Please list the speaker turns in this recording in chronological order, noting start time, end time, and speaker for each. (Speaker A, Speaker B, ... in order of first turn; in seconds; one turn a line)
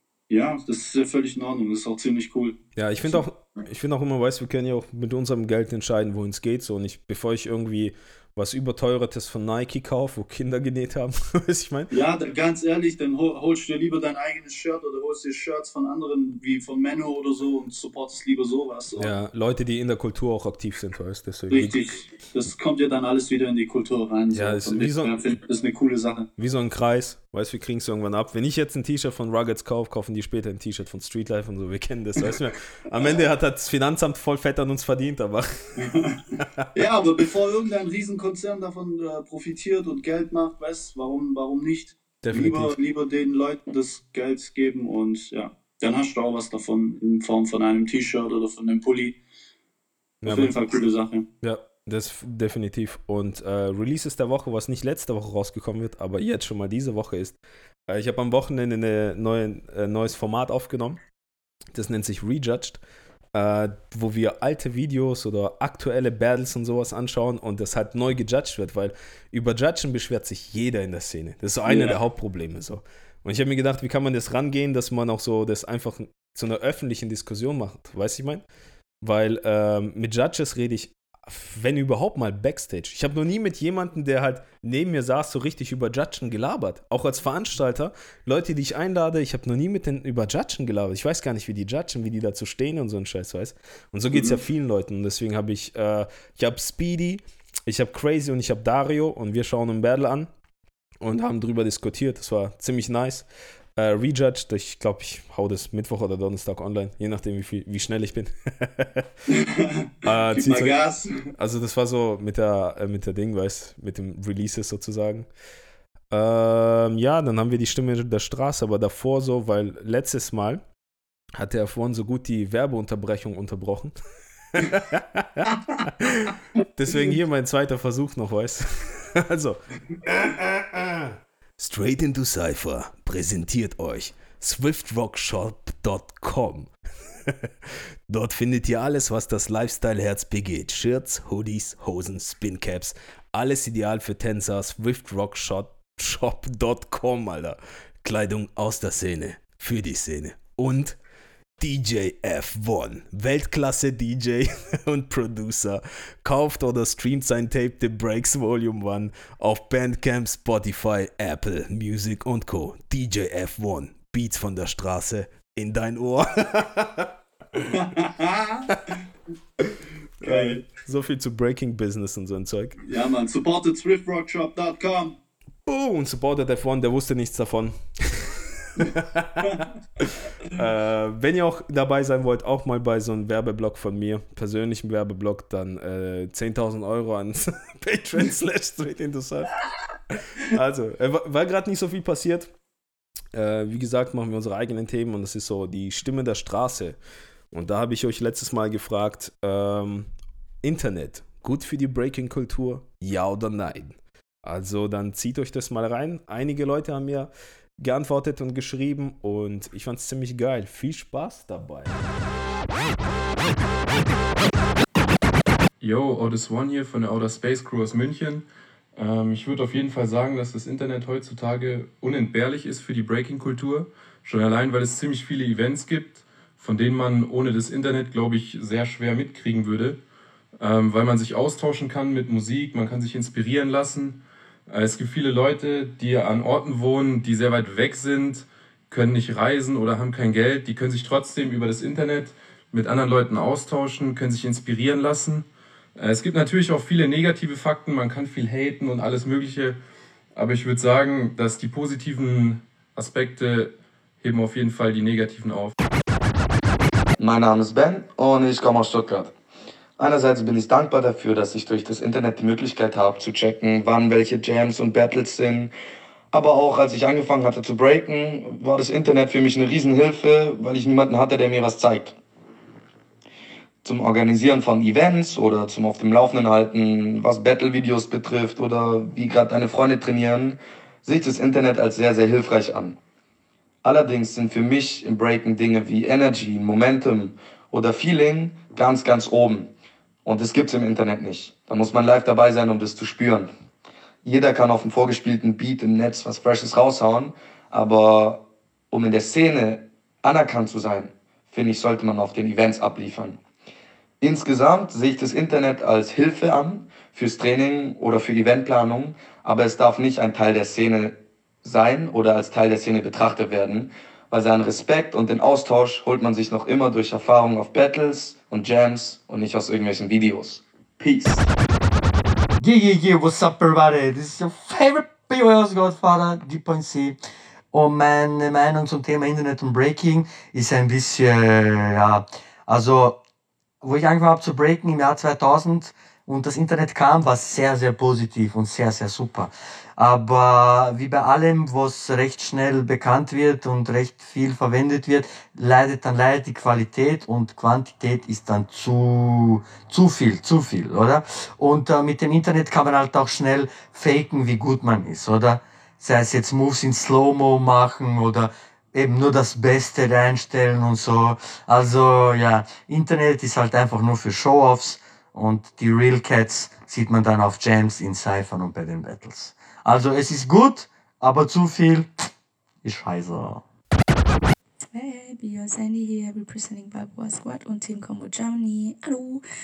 Speaker A: 0.3-3.2
Speaker B: 2.8-11.9
Speaker A: 11.9-19.1
Speaker B: 19.0-21.8
Speaker A: 21.5-26.3
Speaker B: 24.3-25.2
Speaker B: 26.4-35.9
Speaker A: 35.8-49.2
Speaker B: 42.2-42.7
Speaker B: 50.2-50.5
Speaker A: 50.2-51.3
Speaker B: 51.4-61.0
Speaker B: 61.7-62.8
Speaker B: 63.3-78.4
Speaker A: 71.7-72.0
Speaker B: 79.0-100.3
Speaker A: 94.1-94.4
Speaker B: 101.0-103.3
Speaker B: 103.8-109.0
Speaker A: 109.3-111.3
Speaker B: 110.0-110.8
Speaker B: 111.3-115.3
Speaker B: 116.1-120.6
Speaker B: 121.4-123.9
Speaker B: 124.6-136.7
Speaker B: 137.3-151.0
Speaker B: 151.6-167.6
Speaker A: 167.7-168.7
Speaker A: 170.2-170.6
Speaker B: 170.2-172.8
Speaker A: 172.8-175.2
Speaker B: 175.7-189.5
Speaker B: 190.1-192.5
Speaker B: 193.3-197.0
Speaker B: 197.5-200.1
Speaker B: 200.6-211.9
Speaker C: 215.8-230.0
Speaker C: 230.6-249.8
Speaker C: 250.3-255.8
Speaker D: 257.2-259.3
Speaker D: 260.0-265.7
Speaker D: 266.3-272.2
Speaker D: 273.8-283.0
Speaker D: 283.8-289.7
Speaker D: 290.2-293.5
Speaker D: 294.2-303.4
Speaker D: 304.2-321.5
Speaker E: 322.6-327.2
Speaker E: 327.7-333.2
Speaker E: 333.8-372.1
Speaker E: 372.8-373.6
Speaker F: 374.9-379.4